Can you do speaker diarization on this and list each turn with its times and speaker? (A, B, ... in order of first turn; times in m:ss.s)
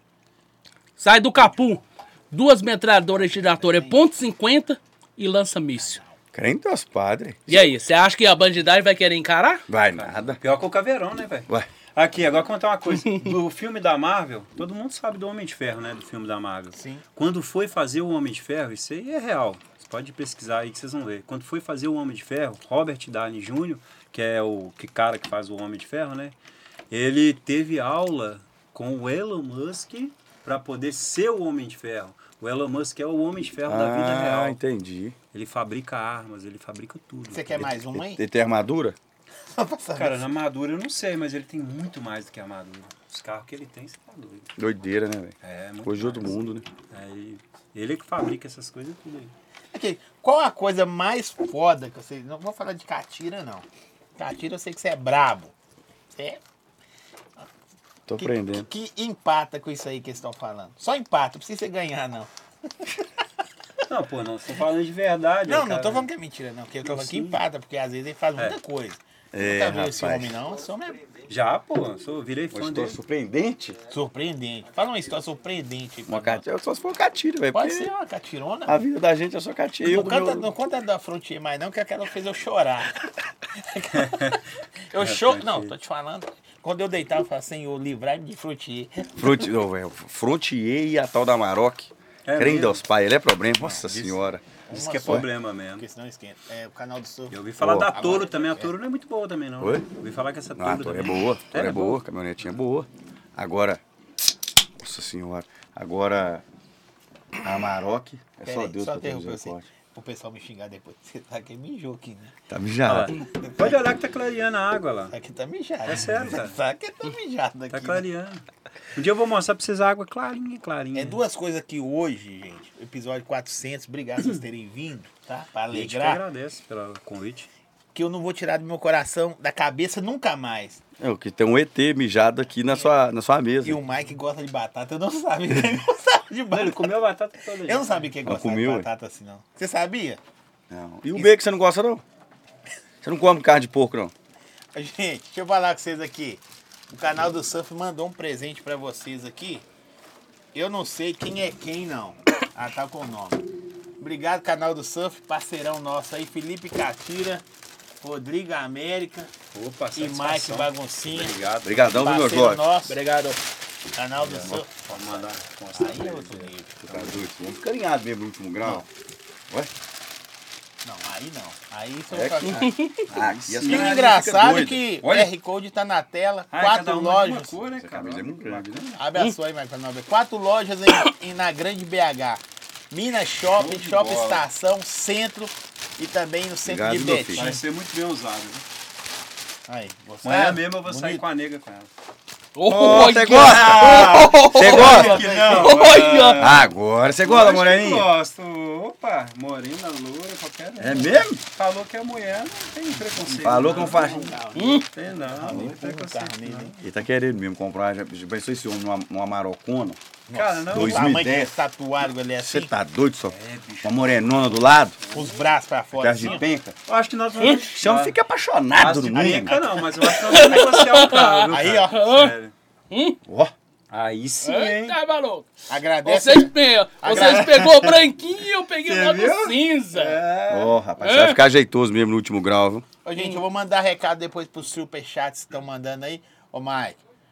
0:01.0-0:06.0 A
0:03.1-0:04.0 B
0:05.8-0:06.2 B
0:06.3-0:07.7 C
0:07.5-0:09.6 A
0:09.7-0:10.4 C
0:09.9-0:26.4 D
0:13.0-0:13.3 A
0:16.7-0:17.0 B
0:26.9-0:34.6 D
0:33.7-0:35.2 C
0:35.3-0:37.7 D
0:37.3-0:38.2 B
0:37.6-0:39.0 C
0:39.5-0:40.3 B
0:39.9-0:44.5 D
0:44.6-0:46.6 C
0:45.4-0:46.4 D
0:46.9-0:49.3 D
0:49.7-0:53.6 B
0:54.2-0:55.5 B
0:56.1-0:56.4 B
0:58.1-0:58.7 C
0:58.2-1:02.3 B
1:03.9-1:06.1 D
1:05.4-1:11.0 B
1:06.8-1:07.4 D
1:09.3-1:10.3 C
1:11.3-1:13.0 D
1:12.5-1:13.8 C
1:13.9-1:16.4 B
1:16.1-1:17.9 C
1:17.5-1:18.8 B
1:18.6-1:20.5 C
1:19.8-1:24.4 B
1:23.9-1:24.4 D
1:24.9-1:29.5 B
1:25.0-1:25.7 D
1:29.2-1:34.4 C
1:32.2-1:32.8 D
1:33.6-1:35.8 D
1:34.7-1:38.7 B
1:37.3-1:42.0 D
1:37.6-1:37.9 C
1:39.6-1:39.8 C
1:40.6-1:43.8 C
1:44.8-1:46.4 C
1:47.4-1:49.7 C
1:48.4-1:52.3 B
1:52.5-1:53.2 C
1:52.8-1:55.1 D
1:53.4-1:53.8 B
1:55.1-1:58.0 B
1:55.8-1:56.6 D
1:57.7-1:58.4 D
1:58.9-2:01.2 D
2:00.9-2:06.2 B
2:05.7-2:07.5 D
2:07.9-2:10.8 B
2:11.0-2:13.8 C
2:13.6-2:17.0 B
2:16.5-2:18.1 D
2:17.6-2:20.2 B
2:18.2-2:18.9 C
2:20.7-2:22.0 C
2:23.0-2:24.1 C
2:24.7-2:29.6 B
2:30.5-2:33.4 B
2:34.0-2:37.4 B
2:38.0-2:39.3 B
2:39.5-2:42.2 D
2:40.0-2:43.0 B
2:41.6-2:42.6 C
2:42.8-2:43.4 A
2:43.9-2:46.8 B
2:44.2-2:47.2 D
2:46.8-2:48.9 C
2:50.8-2:52.8 B
2:52.1-2:55.0 C
2:52.5-2:53.0 A
2:53.1-2:54.1 D
2:53.6-2:57.6 B
2:55.0-2:55.3 D
2:56.5-2:59.0 D
2:57.8-2:58.8 C
2:59.0-3:07.6 B
3:03.5-3:04.4 D
3:06.6-3:07.5 C
3:07.3-3:08.6 D
3:09.7-3:11.2 B
3:10.2-3:11.9 D
3:12.5-3:16.5 A
3:12.7-3:15.2 C
3:13.3-3:24.3 D
3:14.7-3:15.9 B
3:16.4-3:18.1 C
3:20.8-3:21.4 C
3:23.3-3:26.8 B
3:23.4-3:24.4 C
3:24.5-3:24.8 A
3:24.9-3:26.8 D
3:26.8-3:30.0 C
3:30.3-3:32.7 B
3:30.3-3:31.2 D
3:30.7-3:31.6 C
3:32.4-3:35.0 C
3:33.2-3:35.5 D
3:35.1-3:36.4 B
3:35.9-3:36.7 C
3:36.2-3:38.2 D
3:37.4-3:39.6 C
3:38.7-3:42.5 D
3:39.2-3:39.7 B
3:40.0-3:42.3 A
3:41.5-3:42.0 B
3:42.9-3:43.2 A
3:43.2-3:43.5 C
3:43.9-3:45.0 D
3:44.4-3:45.5 A
3:45.7-3:47.9 B
3:46.0-3:50.2 A
3:47.1-3:47.9 D
3:48.8-3:50.8 D
3:50.5-3:52.8 C
3:51.0-3:51.4 A
3:53.0-3:57.0 B